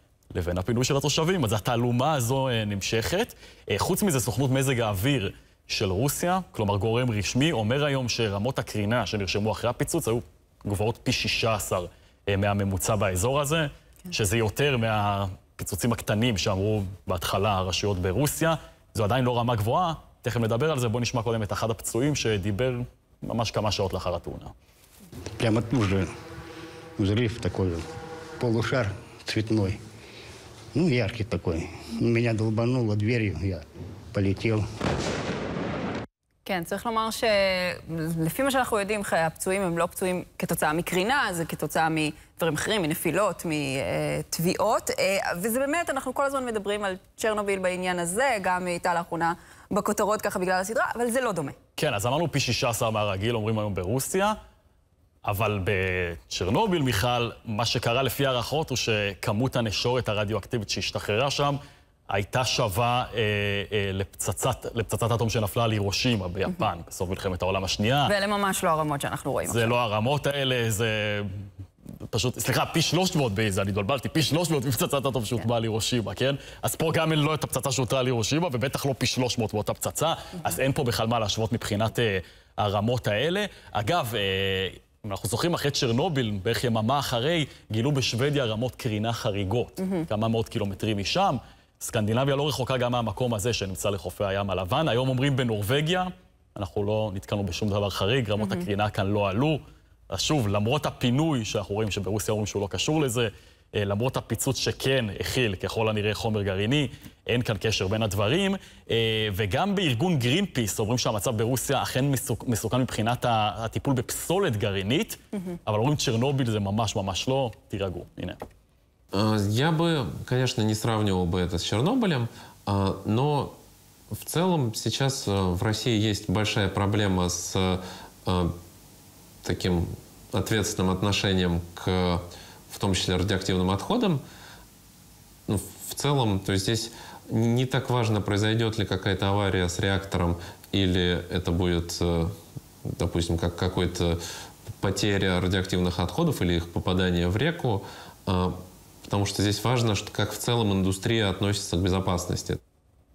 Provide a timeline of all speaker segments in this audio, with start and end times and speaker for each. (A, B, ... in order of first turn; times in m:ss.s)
0:00.3-0:24.5 A
0:25.4-0:26.1 B
0:27.0-0:27.9 B
0:28.4-0:29.8 B
0:30.7-0:34.7 B
0:36.5-0:51.6 C
0:51.8-0:54.4 A
0:55.2-1:01.6 A
1:02.1-1:08.1 A
1:08.1-1:09.8 C
1:09.5-1:11.5 A
1:12.1-1:58.4 A
1:29.8-1:30.0 C
1:38.4-1:38.7 C
1:59.1-2:03.6 D
2:04.1-2:08.5 D
2:09.4-2:14.2 D
2:15.5-2:32.6 D